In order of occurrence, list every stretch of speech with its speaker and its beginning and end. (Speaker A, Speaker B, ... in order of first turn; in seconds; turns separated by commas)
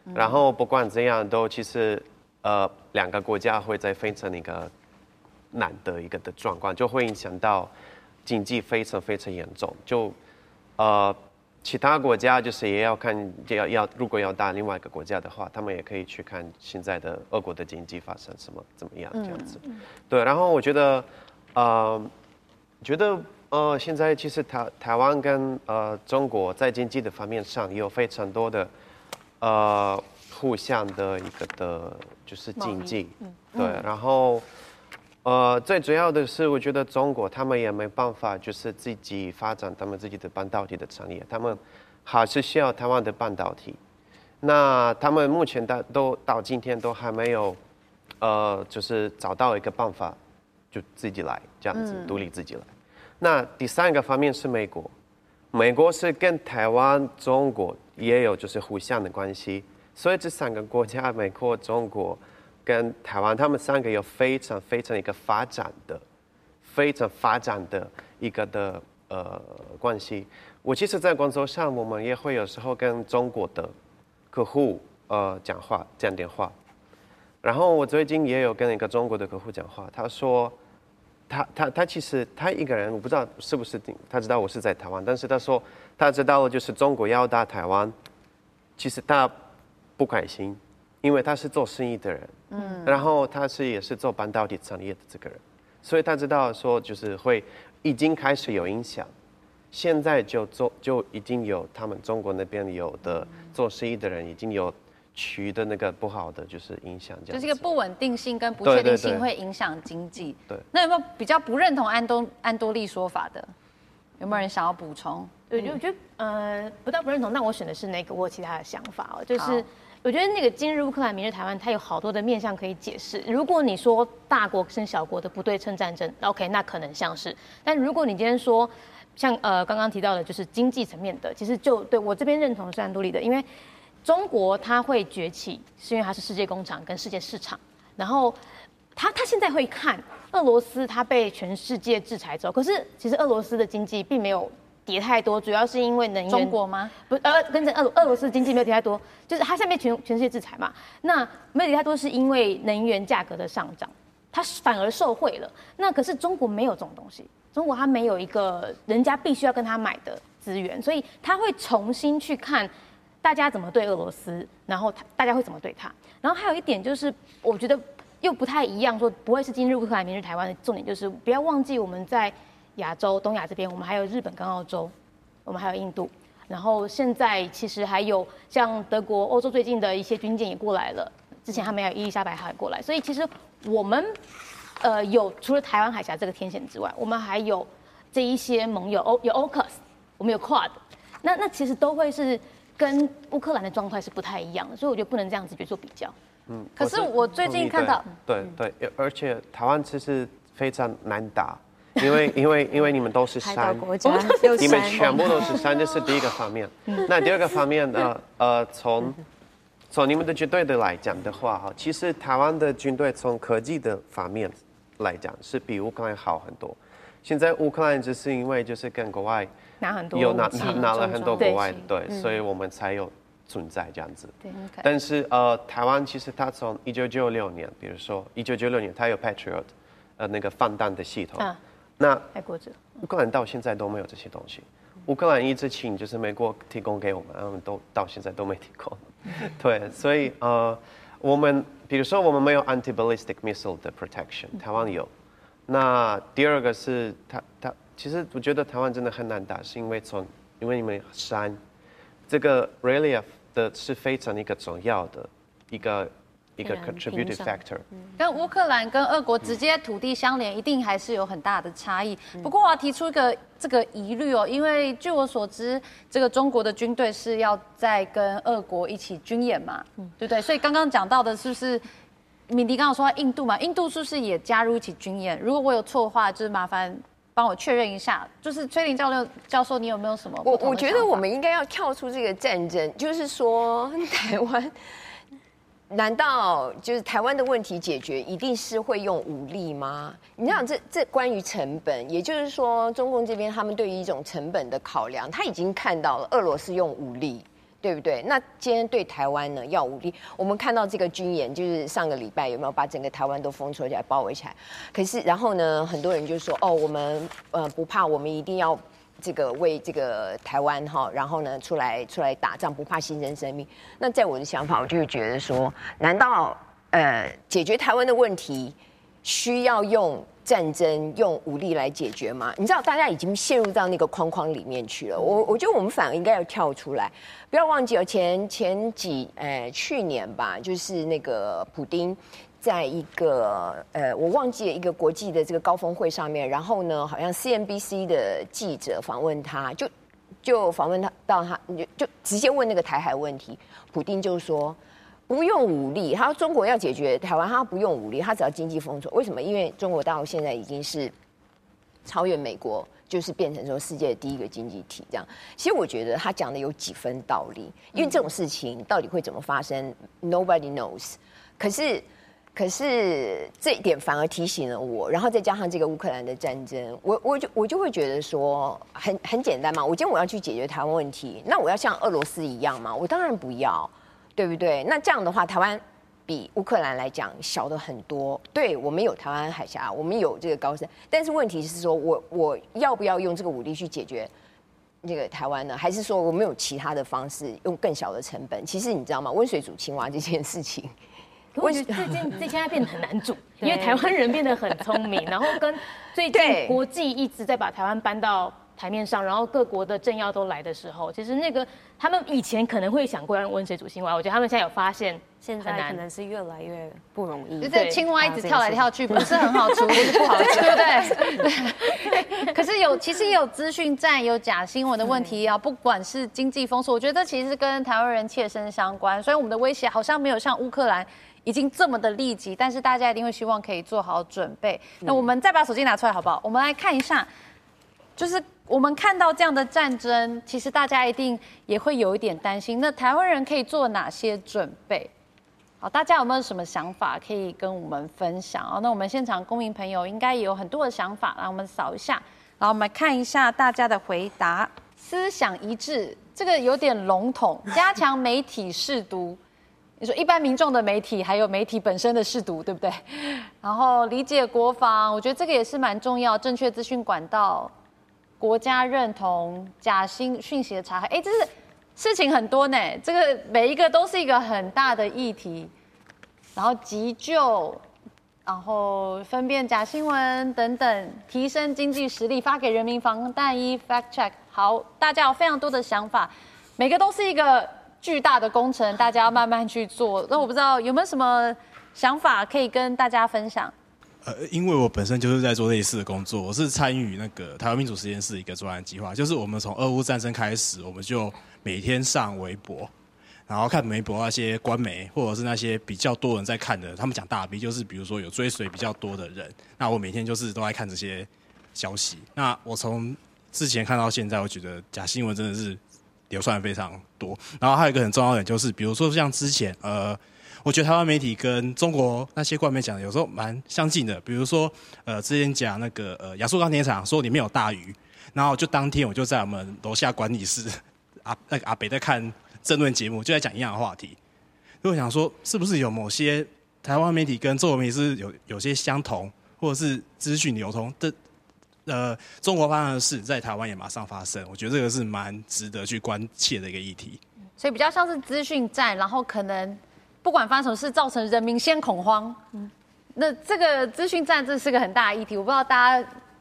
Speaker A: 0.1-4.7, Speaker A: 5.5-7.7, Speaker A: 8.2-10.2, Speaker A: 10.8-22.1, Speaker B: 19.1-19.5, Speaker A: 22.8-28.7, Speaker A: 29.4-34.4, Speaker C: 32.6-33.0, Speaker B: 33.6-33.8, Speaker A: 35.2-43.8, Speaker A: 44.4-47.6, Speaker A: 48.2-50.2, Speaker A: 50.7-54.9, Speaker B: 51.7-52.2, Speaker A: 55.5-66.0, Speaker A: 66.6-73.7, Speaker A: 74.3-76.5, Speaker A: 77.4-80.5, Speaker A: 81.3-87.9, Speaker A: 88.8-89.3, Speaker A: 90.0-99.1, Speaker B: 92.5-93.0, Speaker A: 99.7-107.6, Speaker B: 107.3-113.5, Speaker A: 108.6-109.3, Speaker B: 114.2-115.3, Speaker C: 115.5-133.4, Speaker B: 119.3-119.6, Speaker C: 134.0-138.4, Speaker C: 138.9-162.7, Speaker B: 146.3-146.9, Speaker C: 163.2-174.9, Speaker C: 175.4-184.2, Speaker C: 184.8-196.1, Speaker A: 196.5-209.2, Speaker B: 196.8-198.1, Speaker D: 203.4-205.5, Speaker B: 204.5-204.8, Speaker A: 209.9-219.5, Speaker C: 219.8-221.8, Speaker A: 220.1-232.2, Speaker B: 220.9-221.4, Speaker B: 224.5-224.8, Speaker C: 232.3-233.0, Speaker A: 232.9-245.1, Speaker A: 245.7-251.6, Speaker A: 252.3-257.9, Speaker D: 256.6-258.1, Speaker B: 258.2-271.8, Speaker B: 272.5-281.2, Speaker E: 280.4-285.0, Speaker E: 285.9-339.9, Speaker E: 340.4-351.1, Speaker E: 352.0-384.3, Speaker E: 385.0-390.9, Speaker C: 391.5-406.0, Speaker E: 391.6-392.3, Speaker E: 393.6-393.9, Speaker E: 396.3-396.8, Speaker D: 405.4-411.4, Speaker B: 407.6-427.3, Speaker C: 407.6-408.0, Speaker B: 428.2-435.1, Speaker B: 435.8-449.4, Speaker B: 450.0-457.7, Speaker B: 458.4-465.7, Speaker B: 466.5-467.8, Speaker B: 468.4-483.7, Speaker F: 484.2-492.9, Speaker F: 493.5-524.2, Speaker F: 524.8-531.1, Speaker F: 531.9-537.2, Speaker B: 537.6-542.4, Speaker B: 543.1-546.1